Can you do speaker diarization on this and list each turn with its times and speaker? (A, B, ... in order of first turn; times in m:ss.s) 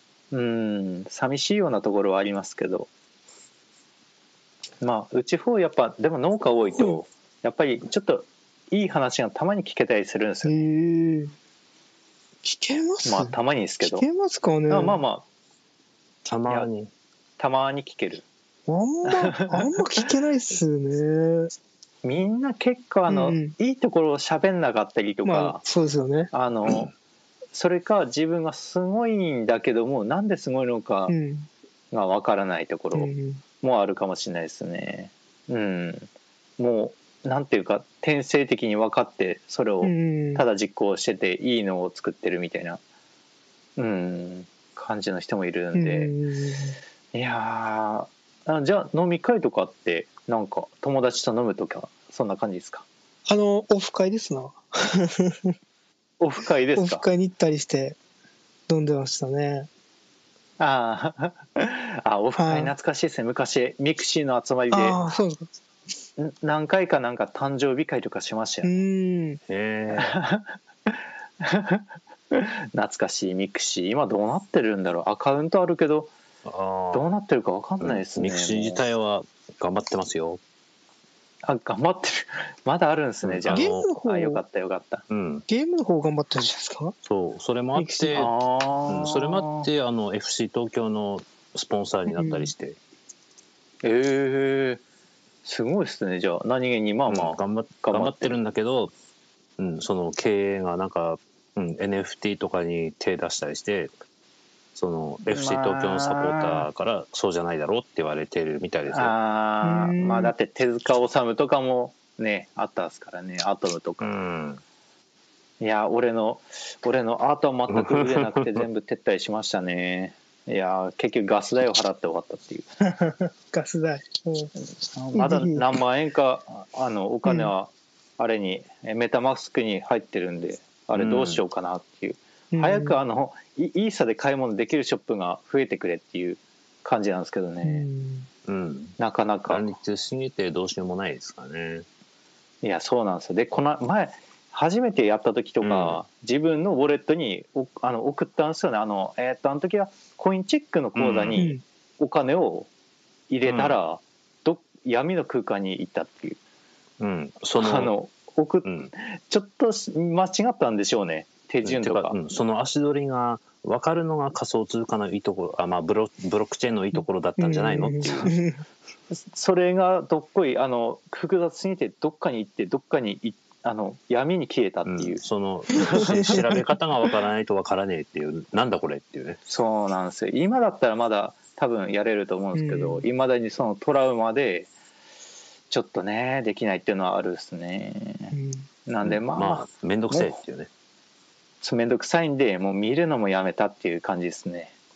0:00.3-0:02.9 A
0:04.8-0:10.6 A
0:10.4-0:11.3 B
0:12.4-0:15.0 B
0:13.0-0:14.1 A
0:14.7-0:15.3 A
0:16.2-0:16.9 C
0:17.4-0:18.2 A
0:18.7-0:21.5 B
0:19.1-0:19.7 A
0:22.0-0:25.6 A
0:23.1-0:23.6 B
0:25.2-0:26.3 B
0:26.3-0:26.9 A
0:27.5-0:31.1 A
0:31.1-0:31.5 B
0:31.9-0:42.8 A
0:32.9-0:33.4 B
0:39.8-0:40.4 B
0:43.8-0:46.1 A
0:45.7-0:46.8 B
0:47.1-0:52.8 A
0:53.3-0:55.5 B
0:56.2-0:57.0 A
0:56.8-0:58.0 B
0:58.7-0:59.7 B
1:00.6-1:05.0 A
1:02.4-1:02.7 B
1:04.7-1:05.5 B
1:06.2-1:08.8 A
1:08.6-1:09.4 B
1:09.5-1:10.1 C
1:09.9-1:16.1 A
1:16.4-1:17.1 C
1:16.9-1:18.8 A
1:17.8-1:20.4 C
1:21.4-1:25.0 A
1:23.2-1:23.9 C
1:23.5-1:24.4 B
1:25.1-1:25.4 C
1:25.5-1:27.0 B
1:27.0-1:28.3 C
1:27.8-1:28.3 B
1:28.1-1:29.7 A
1:28.9-1:32.8 C
1:32.1-1:32.5 B
1:33.8-1:34.8 A
1:35.4-1:38.4 A
1:37.1-1:38.9 C
1:39.6-1:43.9 C
1:44.8-1:49.1 C
1:45.3-1:46.7 A
1:48.9-1:54.1 A
1:49.6-1:50.3 B
1:54.0-1:54.6 C
1:55.6-2:02.7 A
1:57.7-1:58.6 C
2:02.8-2:04.5 B
2:04.9-2:17.9 A
2:05.2-2:05.7 B
2:07.3-2:07.5 B
2:11.0-2:11.4 C
2:12.5-2:13.0 B
2:17.6-2:18.3 B
2:18.5-2:19.0 C
2:19.0-2:19.7 A
2:19.5-2:21.9 C
2:22.6-2:32.7 A
2:25.6-2:26.0 C
2:31.0-2:31.5 C
2:31.4-2:31.6 B
2:33.3-2:36.4 A
2:33.5-2:33.8 C
2:37.0-2:37.9 C
2:37.6-2:42.2 A
2:38.6-2:38.9 C
2:41.6-2:48.3 C
2:47.4-2:48.6 B
2:49.3-2:55.2 A
2:54.9-2:59.4 C
2:55.7-2:56.5 A
2:55.9-2:56.4 B
2:59.5-3:04.7 A
3:02.5-3:03.0 B
3:05.7-3:08.3 A
3:08.3-3:08.7 B
3:08.9-3:10.4 A
3:09.0-3:10.7 C
3:11.6-3:14.7 A